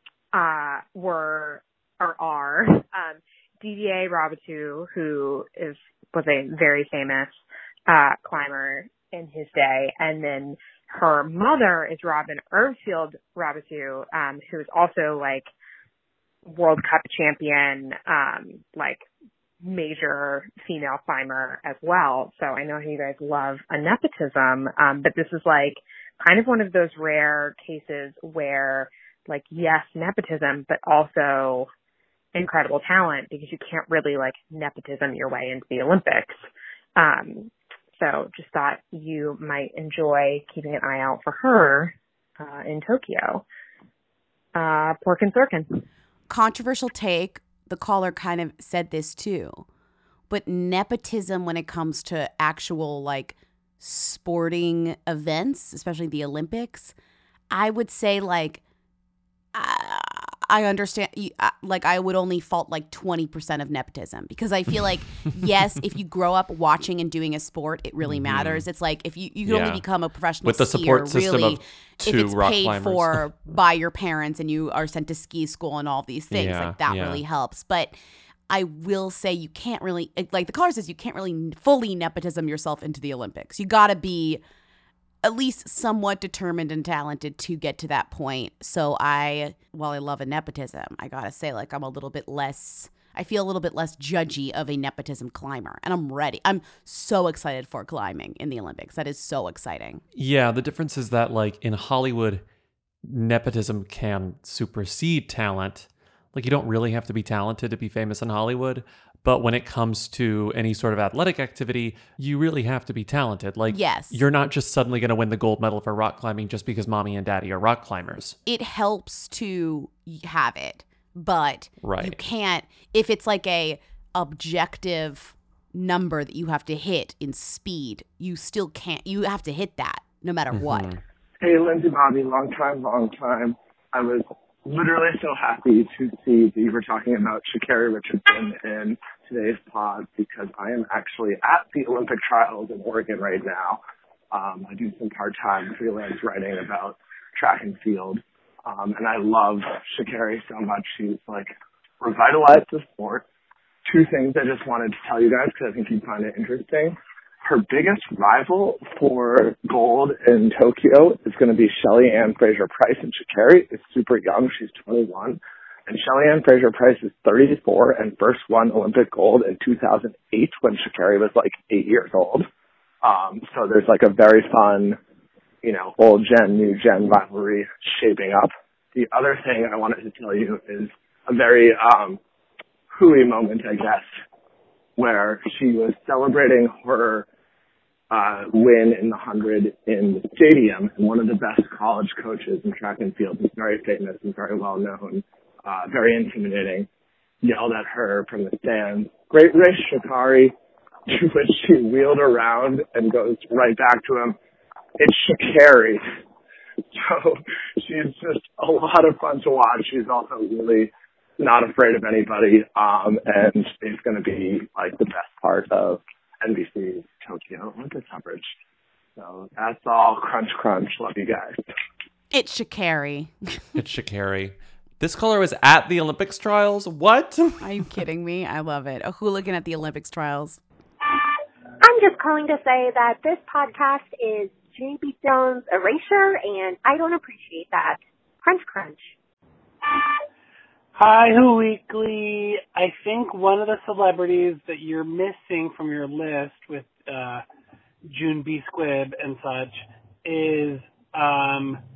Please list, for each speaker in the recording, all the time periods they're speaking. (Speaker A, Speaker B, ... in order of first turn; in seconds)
Speaker A: 0.3-15.5, 16.5-19.1, 19.6-31.7, 32.3-36.4, 37.0-43.4, 44.5-45.7
Speaker B: 46.3-49.6, 50.3-56.9, 57.5-58.6, 59.5-77.9, 78.5-84.4, 85.2-100.0, 113.7-114.2, 118.5-130.9, 222.3-223.6, 227.6-230.6
Speaker C: 68.0-68.6, 69.4-69.8, 70.4-73.2, 76.3-77.2, 100.1-102.4, 103.0-118.4, 121.8-122.2, 130.5-131.0, 223.8-227.7
Speaker D: 131.4-143.8, 144.3-153.2, 153.9-172.5, 173.0-175.0, 175.6-182.2, 182.9-184.1, 185.0-187.3, 188.1-196.9, 197.4-200.5, 201.1-204.3, 205.0-206.0, 206.9-218.5, 219.2-221.6
Speaker E: 231.8-239.1
Speaker F: 240.9-247.4, 248.1-251.8